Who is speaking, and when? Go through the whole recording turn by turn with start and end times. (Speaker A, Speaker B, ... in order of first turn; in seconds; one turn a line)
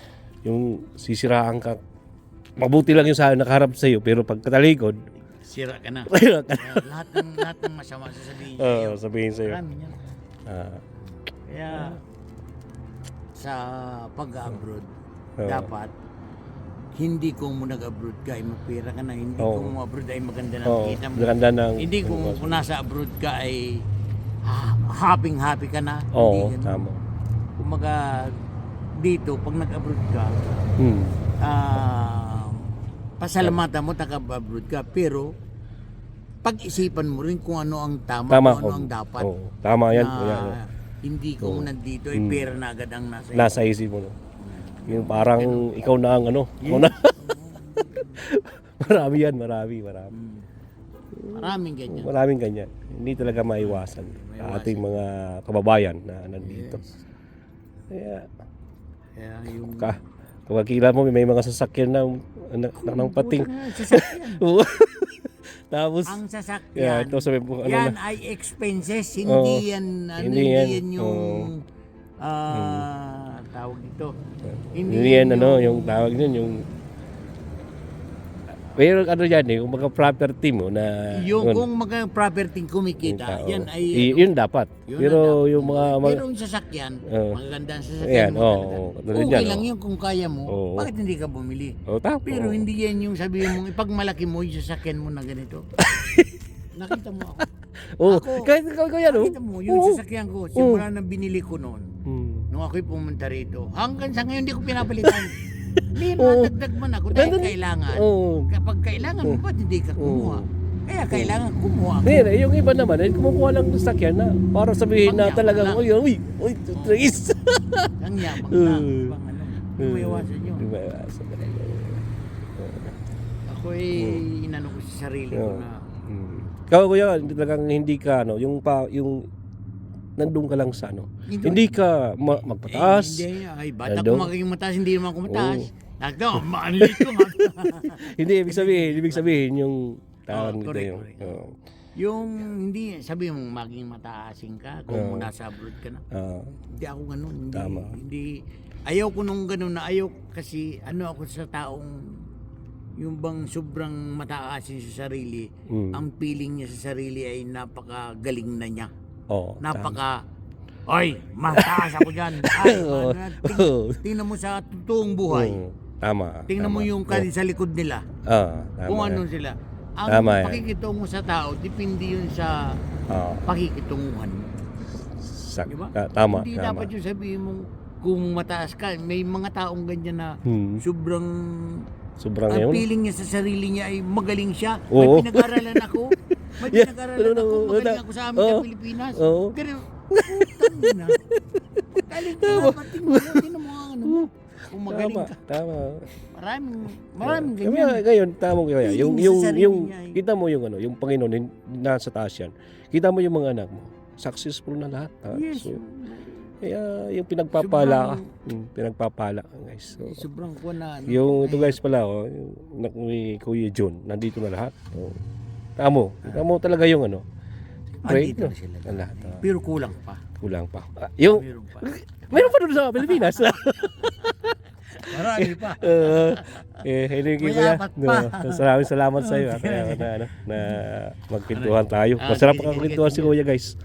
Speaker A: 0.5-1.8
Speaker A: 2.6-5.1
Speaker B: 5.4-10.0
Speaker A: 6.1-7.4
Speaker A: 8.6-9.6
Speaker A: 10.5-10.8
Speaker B: 11.5-12.0
Speaker A: 11.7-12.0
Speaker B: 13.3-15.9
Speaker A: 15.4-15.7
Speaker B: 16.9-23.8
Speaker A: 19.4-19.7
Speaker A: 20.7-22.7
Speaker B: 24.4-26.9
Speaker A: 26.1-27.0
Speaker B: 27.6-28.4
Speaker B: 29.0-30.4
Speaker A: 30.8-31.2
Speaker B: 31.4-35.3
Speaker B: 36.4-39.3
Speaker A: 38.3-40.6
Speaker B: 39.9-43.7
Speaker A: 41.4-42.5
Speaker A: 43.4-44.2
Speaker B: 44.4-45.7
Speaker A: 44.9-50.1
Speaker B: 46.6-48.2
Speaker B: 48.9-49.2
Speaker B: 50.1-50.5
Speaker A: 51.1-56.8
Speaker B: 51.3-52.1
Speaker B: 53.6-55.0
Speaker B: 56.4-57.0
Speaker A: 57.9-58.3
Speaker B: 59.2-60.0
Speaker A: 59.6-66.2
Speaker B: 62.8-64.4
Speaker B: 66.0-71.7
Speaker A: 66.8-68.0
Speaker A: 69.2-69.7
Speaker A: 70.2-71.5
Speaker B: 72.2-74.2
Speaker A: 72.5-72.9
Speaker A: 74.5-76.7
Speaker B: 74.7-76.2
Speaker A: 78.7-81.7
Speaker B: 81.1-84.3
Speaker A: 83.0-86.2
Speaker B: 84.9-95.7
Speaker A: 87.1-87.4
Speaker A: 88.0-89.7
Speaker A: 90.5-90.9
Speaker A: 91.9-92.7
Speaker A: 95.9-96.3
Speaker B: 96.7-97.5
Speaker A: 98.0-100.0
Speaker B: 98.0-98.5
Speaker B: 99.0-101.9
Speaker A: 100.6-100.8
Speaker A: 102.1-102.5
Speaker B: 102.5-105.4
Speaker A: 105.8-106.5
Speaker B: 105.9-112.3
Speaker A: 107.1-108.5
Speaker A: 110.0-110.5
Speaker A: 111.1-111.4
Speaker A: 112.0-119.2
Speaker B: 115.0-115.9
Speaker B: 116.7-117.1
Speaker B: 118.0-120.7
Speaker A: 119.8-122.0
Speaker A: 122.6-123.0
Speaker B: 123.5-125.9
Speaker A: 123.9-124.2
Speaker A: 125.3-129.3
Speaker A: 130.2-133.3
Speaker B: 131.3-131.8
Speaker B: 132.6-139.4
Speaker A: 133.8-134.3
Speaker A: 135.3-135.7
Speaker A: 136.4-141.5
Speaker B: 140.3-146.1
Speaker A: 144.9-145.3
Speaker A: 146.1-146.6
Speaker B: 146.7-152.3
Speaker A: 147.5-148.0
Speaker B: 153.0-158.9
Speaker A: 155.7-156.0
Speaker A: 159.3-160.0
Speaker B: 159.6-160.2
Speaker B: 160.9-165.6
Speaker A: 161.5-164.0
Speaker A: 165.3-167.3
Speaker B: 166.5-168.1
Speaker A: 168.2-169.2
Speaker B: 168.8-172.8
Speaker A: 170.1-170.7
Speaker A: 173.1-173.5
Speaker B: 173.4-174.5
Speaker A: 175.2-176.9
Speaker B: 175.7-181.9
Speaker A: 180.4-180.8
Speaker A: 182.2-182.9
Speaker B: 182.5-191.2
Speaker A: 184.9-185.8
Speaker A: 186.6-189.6
Speaker A: 190.1-191.0
Speaker A: 191.6-193.5
Speaker B: 191.9-195.5
Speaker A: 194.9-196.1
Speaker B: 196.2-198.0
Speaker A: 197.2-205.8
Speaker B: 198.8-200.2
Speaker B: 205.3-206.6
Speaker A: 206.6-210.2
Speaker B: 207.5-208.3
Speaker B: 210.0-211.8
Speaker A: 211.1-215.2
Speaker A: 215.8-217.2
Speaker B: 218.0-220.2
Speaker A: 218.0-219.4
Speaker A: 220.4-233.8
Speaker B: 221.2-224.1
Speaker B: 225.1-230.8
Speaker B: 231.5-233.4